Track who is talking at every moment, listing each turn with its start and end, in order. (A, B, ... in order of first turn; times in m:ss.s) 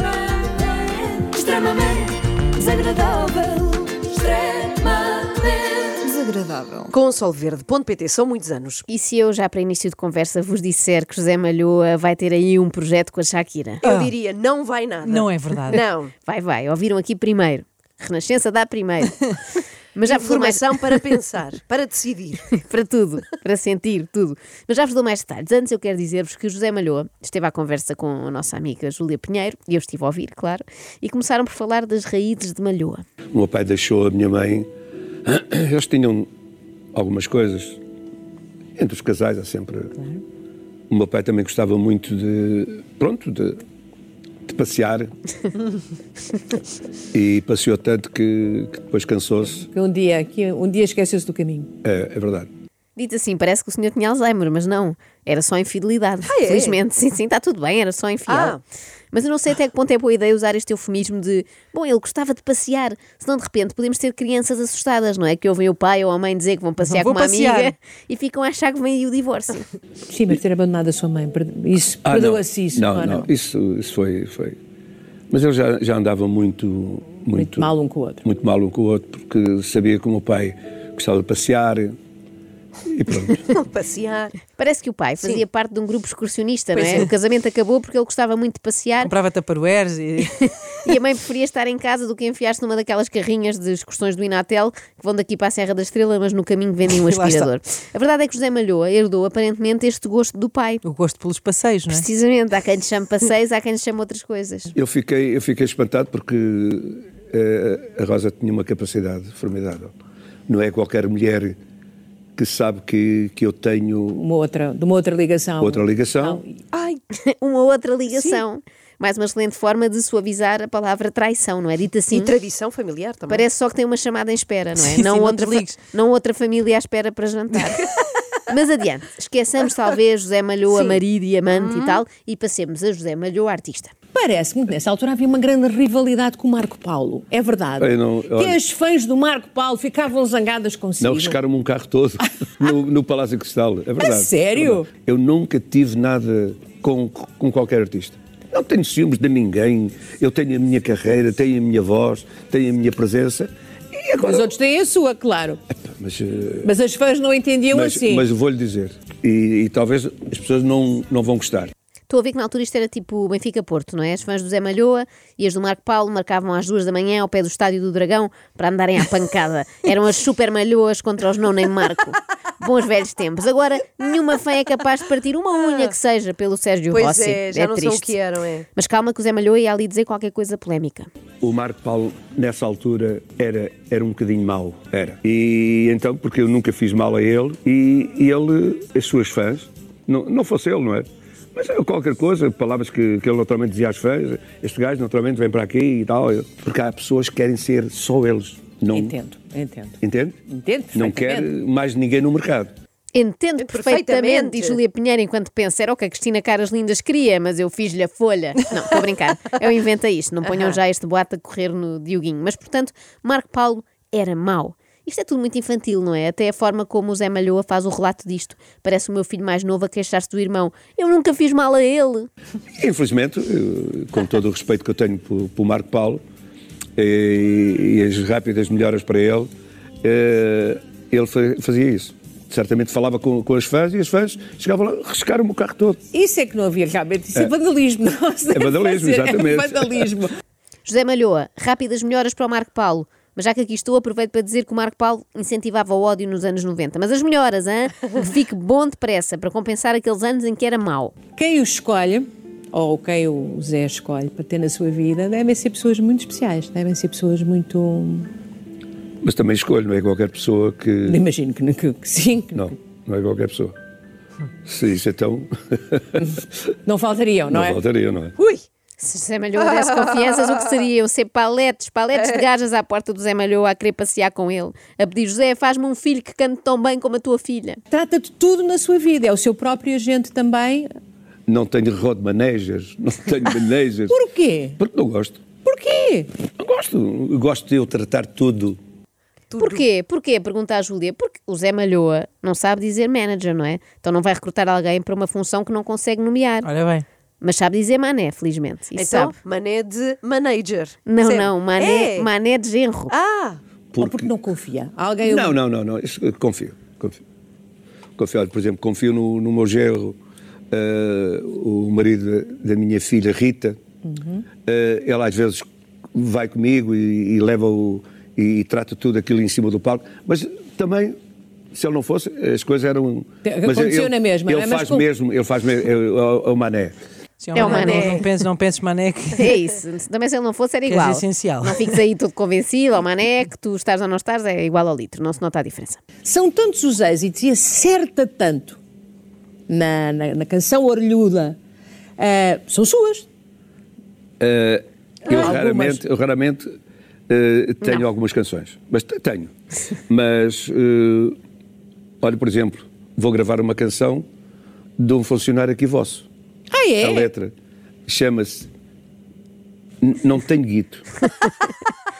0:00.4-0:06.0 A
0:06.0-0:08.8 B
0:06.1-0:06.9 C
0:08.9-0:13.8 D
0:13.8-0:16.1 B
0:13.8-0:14.1 C
0:15.0-0:15.8 C
0:16.2-0:19.4 D
0:19.9-0:21.0 D
0:20.0-0:22.4 B
0:22.5-0:33.0 D
0:33.3-0:34.7 E
0:35.2-0:36.3 E
0:36.9-0:37.8 E
0:38.8-0:39.9 E
0:40.0-0:40.2 A
0:40.9-0:43.6 E
0:44.4-0:45.1 E
0:47.1-0:49.7 E
0:49.6-0:51.7 A
0:51.8-0:52.5 E
0:53.0-0:58.6 D
0:56.3-0:56.8 B
0:58.3-0:58.6 B
0:59.1-1:09.7 D
1:06.9-1:07.7 C
1:10.1-1:13.3 A
1:12.0-1:14.6 E
1:15.3-1:17.7 E
1:17.3-1:18.2 A
1:18.2-1:22.0 E
1:22.8-1:23.4 E
1:23.5-1:24.4 B
1:24.5-1:29.1 D
1:29.0-1:30.5 C
1:30.8-1:40.8 D
1:36.9-1:37.5 C
1:40.8-1:42.0 C
1:41.9-1:44.7 D
1:44.7-1:49.9 E
1:50.5-1:51.6 E
1:52.4-1:54.2 E
1:54.2-1:56.6 A
1:55.6-1:56.4 E
1:56.7-1:57.0 B
1:57.2-2:02.3 D
1:58.1-1:58.4 B
2:02.1-2:03.4 B
2:03.3-2:07.9 D
2:04.8-2:05.7 C
2:08.5-2:13.9 D
2:10.7-2:12.0 B
2:14.1-2:21.4 A
2:17.8-2:18.6 E
2:21.0-2:34.5 E
2:24.0-2:24.9 A
2:34.2-2:35.6 A
2:35.7-2:36.7 E
2:36.6-2:38.2 A
2:37.7-2:41.7 E
2:42.1-2:58.1 D
2:56.9-2:58.7 B
2:58.8-3:01.1 D
3:01.4-3:19.1 E
3:18.9-3:21.5 A
3:20.0-3:20.4 E
3:20.9-3:22.7 E
3:23.1-3:42.3 D
3:23.6-3:24.8 B
3:42.8-3:46.2 E
3:47.0-3:49.5 E
3:50.0-3:56.0 E
3:56.1-4:00.4 A
3:58.5-4:00.1 E
4:00.8-4:11.1 D
4:11.4-4:18.3 A
4:19.2-4:21.2 E
4:21.0-4:22.7 A
4:22.5-4:23.8 E
4:24.6-4:26.4 E
4:26.8-4:27.8 A
4:27.5-4:28.4 E
4:29.0-4:37.8 D
4:37.9-4:40.9 A
4:41.5-4:44.2 E
4:44.1-4:44.8 A
4:44.8-4:45.4 E
4:45.6-4:46.3 A
4:46.6-4:48.8 E
4:49.5-4:49.8 B
4:49.6-4:56.7 D
4:56.6-4:57.0 C
4:57.4-4:59.3 D
4:58.9-5:02.3 B
5:01.0-5:03.1 D
5:03.1-5:03.6 B
5:03.9-5:04.2 E
5:04.0-5:05.6 A
5:05.2-5:07.2 E
5:08.2-5:10.2 E
5:10.7-5:13.8 E
5:14.0-5:14.4 A
5:14.6-5:21.2 E
5:21.7-5:27.0 E
5:23.4-5:25.0 A
5:27.4-5:29.5 C
5:27.5-5:28.2 D
5:27.6-5:28.2 A
5:29.3-5:36.0 D
5:30.8-5:31.8 C
5:36.2-5:38.8 A
5:39.7-5:41.6 A
5:42.2-5:43.3 A
5:44.4-5:46.7 E
5:45.2-5:46.0 A
5:47.3-5:49.5 E
5:50.1-5:51.4 E
5:52.2-5:54.2 E
5:55.0-5:56.2 E
5:56.7-5:57.3 A
5:57.0-5:57.5 E
5:58.0-5:58.7 E
6:00.0-6:01.0 E